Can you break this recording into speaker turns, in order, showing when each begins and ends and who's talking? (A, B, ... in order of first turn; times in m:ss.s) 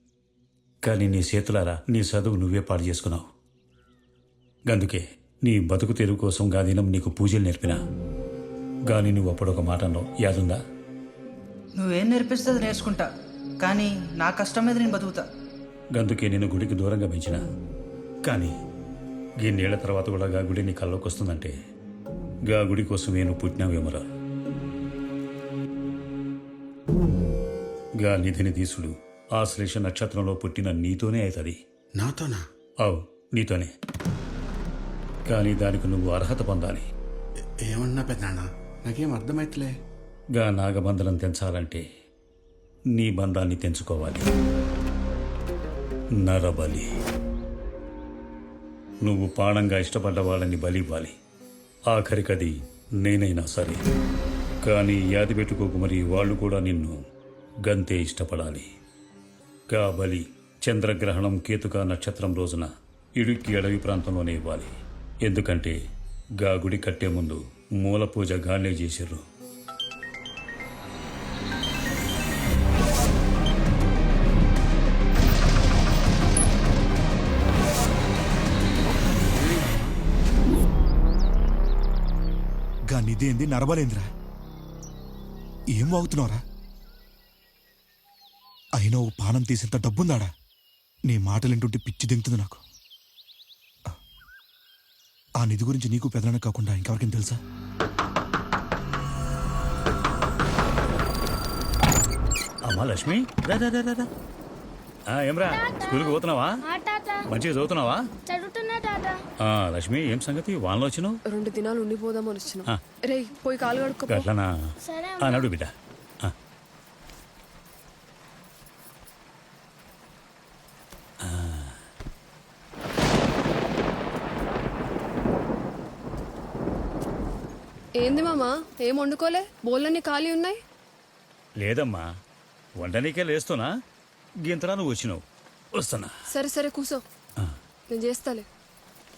0:00.8-0:03.3 A
0:04.7-0:07.8 A
0:08.9-0:10.6 A
0:11.7-0:15.2 B
0:15.9-0:17.4 A
0:18.2-0:18.5 A
0:19.4-0:21.5 A
0:22.5-0:24.0 A
0:28.0-0:31.6 A
0:32.0-0:32.4 C
0:32.8-0:33.7 A
0:35.3-0:36.8 A
0:37.6-0:39.7 C
0:40.4-0:41.8 A
0:42.9-0:44.3 A
0:46.2-0:46.9 A
0:49.0-0:51.1 A
0:51.9-0:53.8 A
0:54.6-0:57.0 A
0:57.6-0:58.7 A
0:59.7-1:04.7 A
1:05.2-1:05.7 A
1:06.4-1:09.2 A
1:19.0-1:19.9 C
1:22.9-1:24.0 D
1:25.7-1:26.4 D
1:28.7-1:30.3 D
1:31.0-1:32.6 D
1:35.4-1:37.4 D
1:42.6-1:44.1 A
1:45.1-1:46.6 A
1:45.5-1:47.3 E
1:47.3-1:48.0 A
1:48.2-1:49.2 E
1:49.4-1:51.2 A
1:51.3-1:54.2 F
1:54.1-1:54.5 A
1:54.8-1:55.5 E
1:55.2-1:55.7 A
2:01.2-2:01.8 A
2:08.0-2:10.6 F
2:11.6-2:12.0 A
2:12.8-2:13.7 A
2:14.4-2:15.2 A
2:15.8-2:16.1 A
2:16.3-2:17.0 F
2:17.9-2:18.4 F